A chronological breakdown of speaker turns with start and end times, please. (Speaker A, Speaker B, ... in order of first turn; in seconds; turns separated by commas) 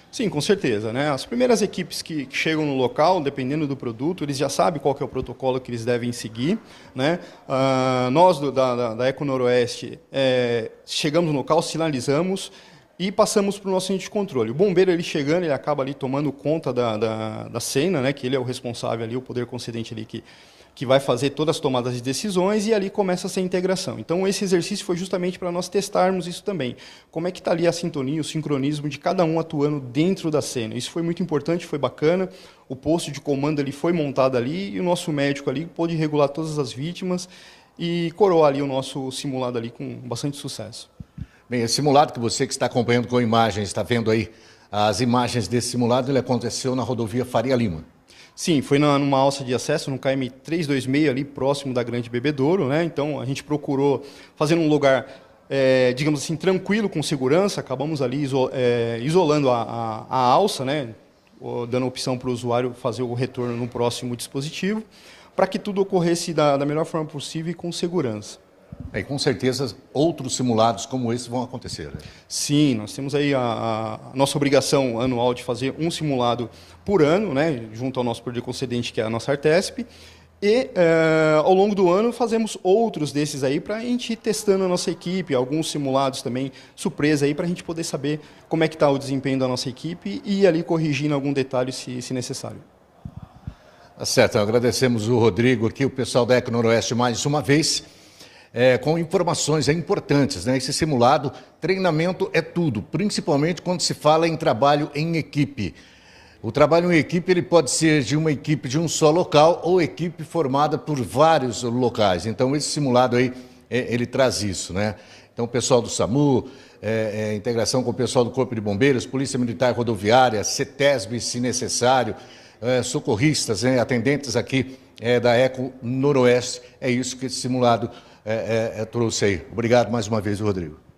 Speaker A: 0.1-40.9, Speaker B: 41.5-47.9, Speaker A: 48.4-68.4, Speaker B: 68.9-72.0, Speaker A: 72.3-79.9, Speaker A: 80.4-92.6, Speaker B: 94.0-97.8, Speaker B: 98.5-105.8, Speaker B: 106.4-130.8